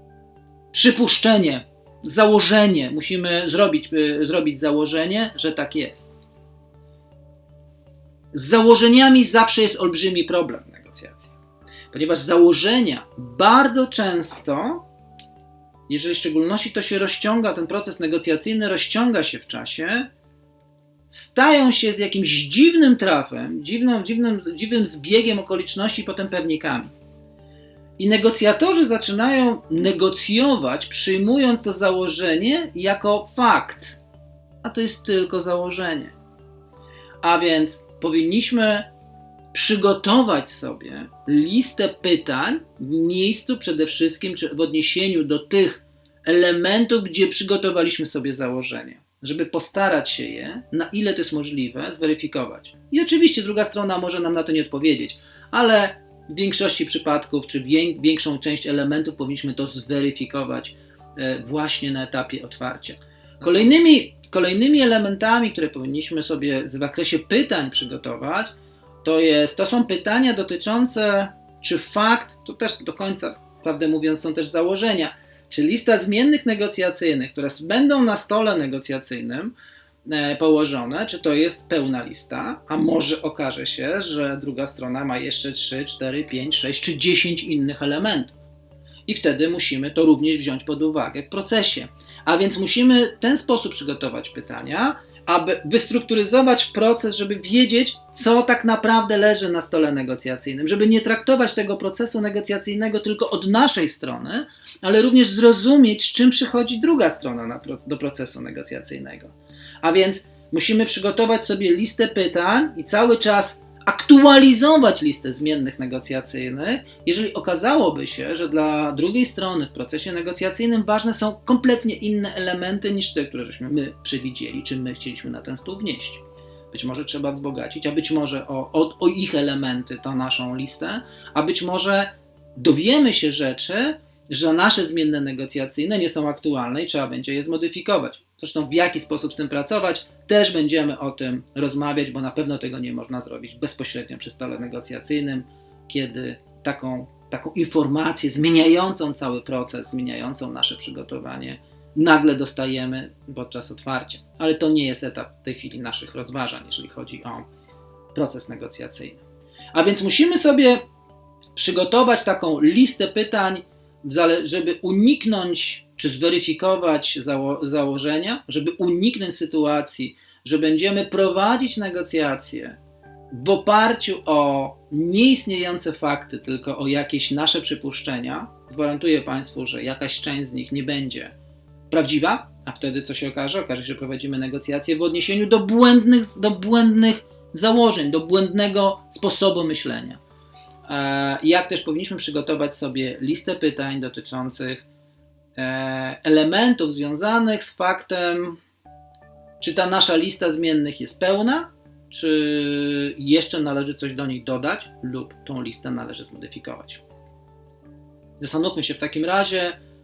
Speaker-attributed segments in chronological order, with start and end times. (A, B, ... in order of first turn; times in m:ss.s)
0:00.7-0:06.1 A
0:08.3-0:11.3 A
0:11.9-0:14.8 A
0:15.9-0:20.1 A
0:21.1-0:26.9 A
0:28.0-0:34.0 A
0:34.6-0:36.2 A
0:37.2-0:38.9 A
0:39.5-1:19.5 A
1:20.0-1:28.4 A
1:29.1-2:37.5 A
2:38.1-2:39.2 A
2:39.7-2:40.8 A
2:41.6-2:52.8 A
2:53.3-3:01.3 A
3:01.9-3:10.2 A
3:10.9-3:14.9 A
3:15.6-3:18.6 A
3:19.6-3:27.0 A
3:28.4-3:29.8 A